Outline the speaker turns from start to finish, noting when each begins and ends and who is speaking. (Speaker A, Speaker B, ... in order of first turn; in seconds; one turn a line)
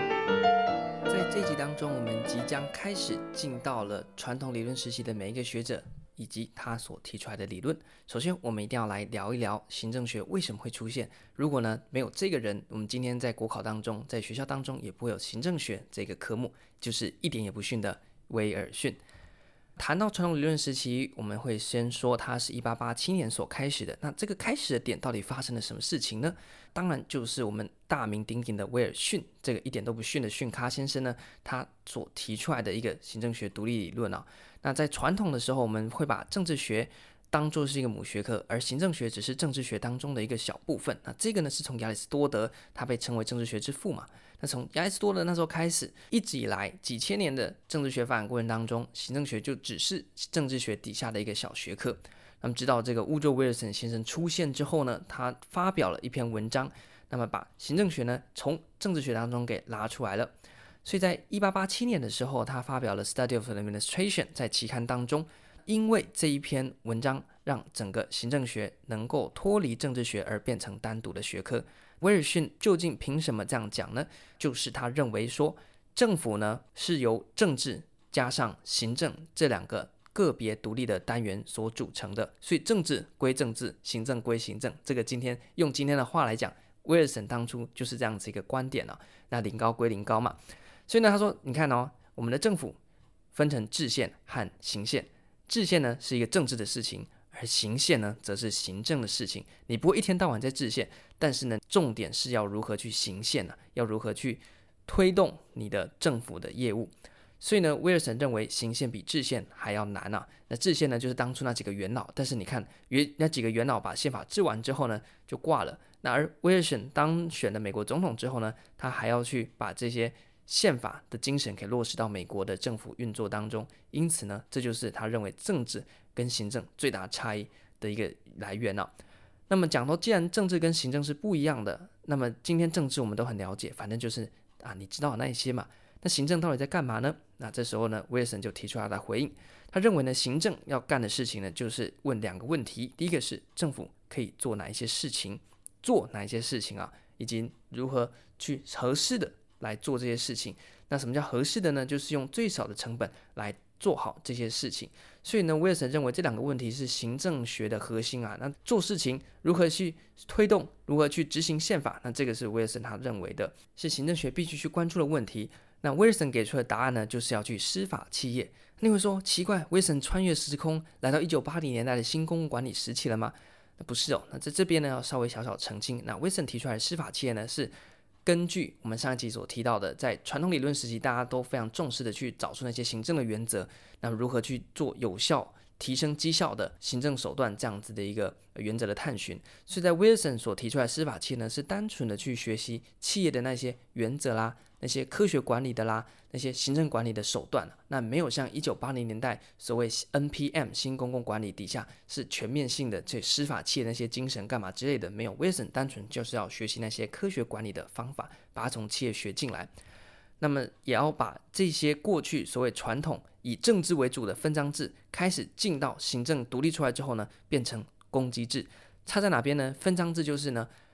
Speaker A: 1.1-19.0
Speaker A: 19.8-60.3
Speaker A: 60.9-90.4
Speaker A: 90.9-92.8
Speaker A: 93.3-128.9
Speaker A: 129.5-177.7
Speaker A: 178.2-209.7
Speaker A: 210.4-220.7